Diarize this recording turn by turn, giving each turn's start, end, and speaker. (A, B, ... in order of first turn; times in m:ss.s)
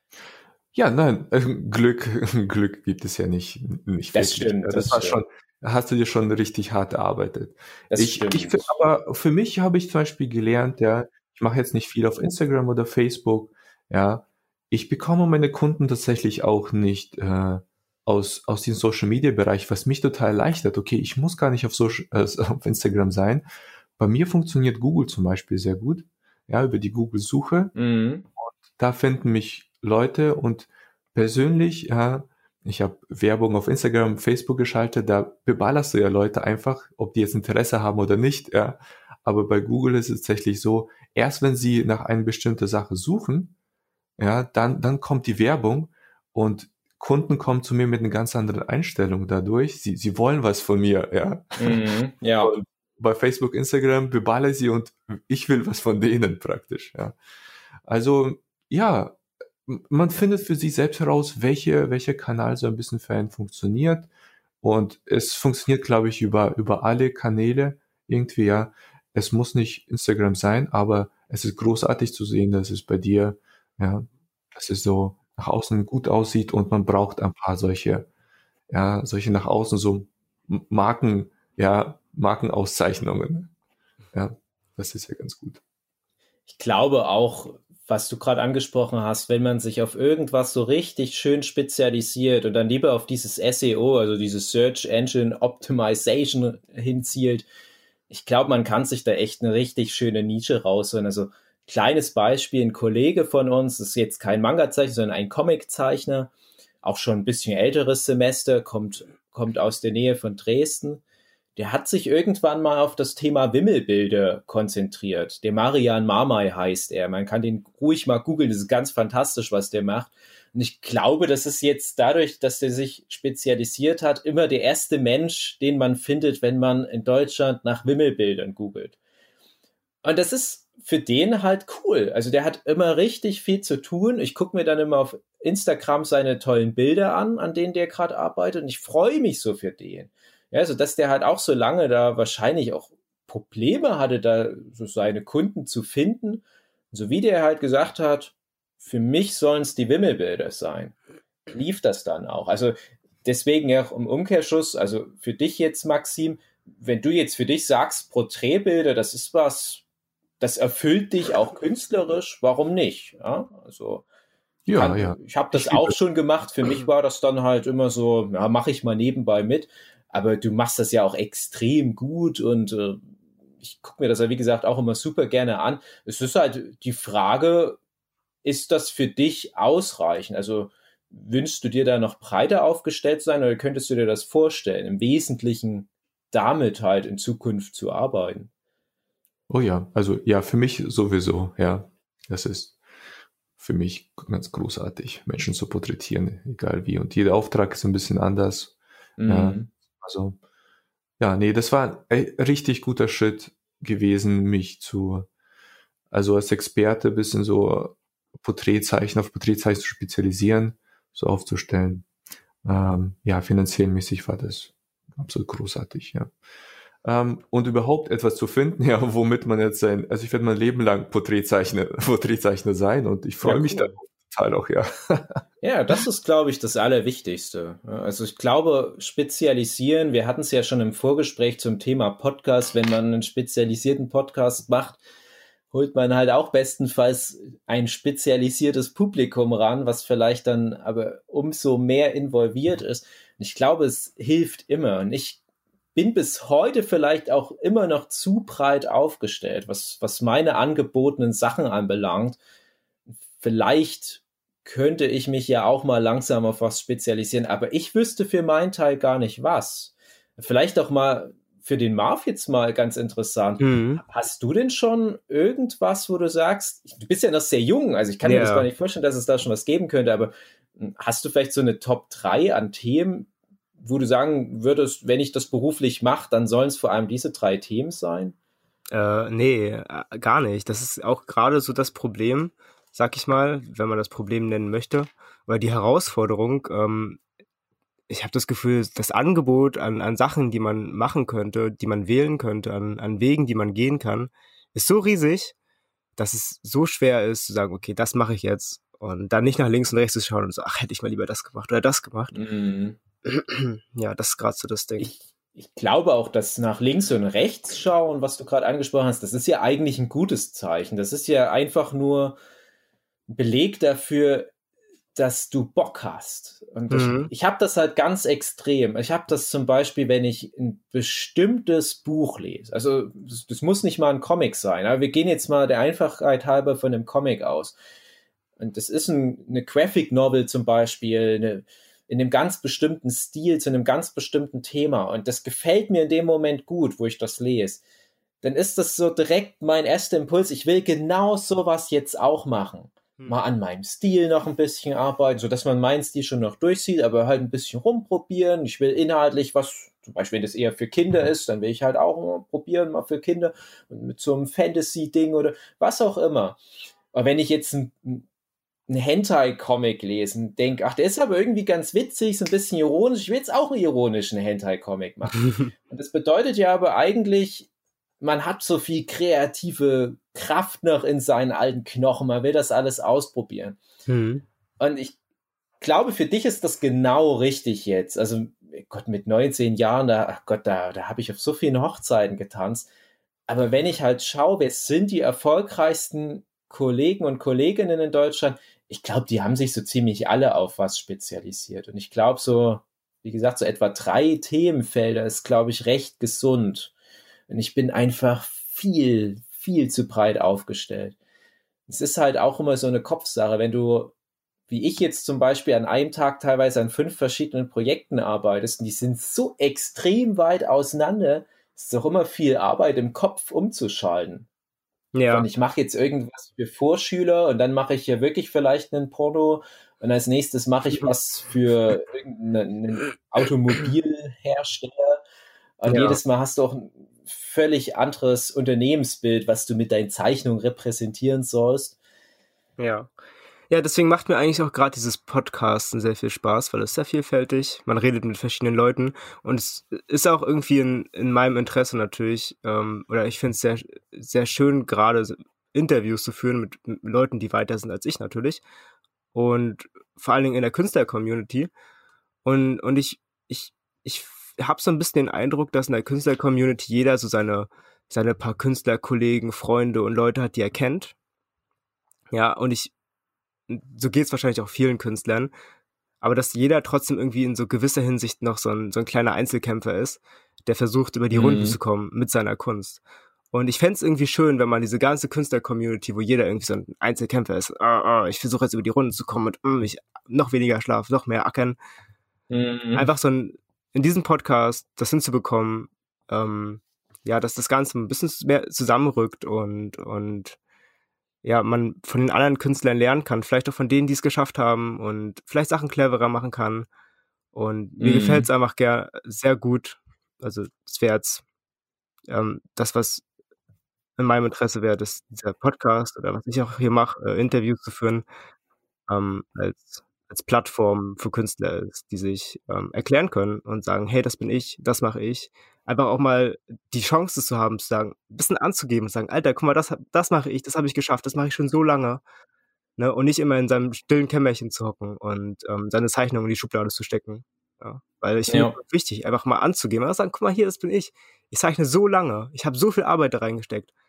0:00.7-0:23.4 A
0:04.1-0:05.2 B
0:07.9-0:08.7 B
0:24.0-0:27.7 A
0:27.7-0:28.2 B
0:28.4-0:43.5 A
0:44.2-0:51.8 A
0:51.6-0:52.5 B
0:52.4-0:57.2 A
0:57.8-1:04.1 A
1:04.6-1:18.1 A
1:18.7-1:23.5 A
1:24.1-1:25.6 A
1:26.5-1:37.5 B
1:38.1-1:46.3 B
1:46.8-1:51.0 B
1:51.6-2:09.0 B
2:10.0-2:30.9 B
2:31.5-2:39.8 B
2:40.4-2:44.0 B
2:44.6-2:46.0 A
2:44.7-2:53.0 B
2:53.6-2:57.8 B
2:58.4-3:08.5 B
3:09.5-3:12.8 A
3:13.6-3:18.8 A
3:19.2-3:19.7 B
3:19.3-3:20.4 A
3:21.2-3:25.3 A
3:26.1-3:32.1 A
3:32.6-3:36.3 A
3:37.0-3:45.4 A
3:43.4-3:43.9 B
3:45.6-3:55.0 B
3:55.7-4:05.4 B
4:05.9-4:12.4 B
4:13.4-4:38.3 B
4:23.6-4:24.0 C
4:28.2-4:28.7 C
4:38.9-4:47.2 C
4:48.1-4:55.5 C
4:56.2-5:02.4 C
5:02.3-5:03.0 B
5:03.2-5:05.1 C
5:05.0-5:12.4 B
5:13.3-5:14.5 B
5:15.1-5:27.7 B
5:16.9-5:17.3 C
5:28.6-5:37.8 B
5:38.4-5:56.6 B
5:57.1-5:58.2 B
5:58.9-6:07.7 B
6:05.4-6:05.7 C
6:08.2-6:13.8 B
6:14.1-6:14.4 C
6:14.8-6:15.2 B
6:15.8-6:22.9 B
6:23.5-6:36.9 B
6:37.5-6:41.2 B
6:41.9-6:44.1 B
6:44.7-6:54.5 B
6:55.1-6:55.4 C
6:55.3-7:05.2 B
7:05.8-7:12.0 B
7:05.9-7:06.2 C
7:12.8-7:13.1 C
7:13.7-7:28.6 C
7:29.3-7:31.7 C
7:32.4-7:41.1 C
7:42.3-7:42.9 C
7:43.7-7:45.5 C
7:46.2-7:53.0 C
7:51.3-7:51.8 B
7:53.5-8:01.8 C
8:02.5-8:03.1 B
8:03.0-8:10.6 C
8:11.4-8:16.9 C
8:17.5-8:21.4 C
8:18.0-8:18.5 B
8:22.3-8:23.2 C
8:24.2-8:28.2 C
8:29.1-8:42.2 C
8:43.0-8:53.9 C
8:48.5-8:48.7 B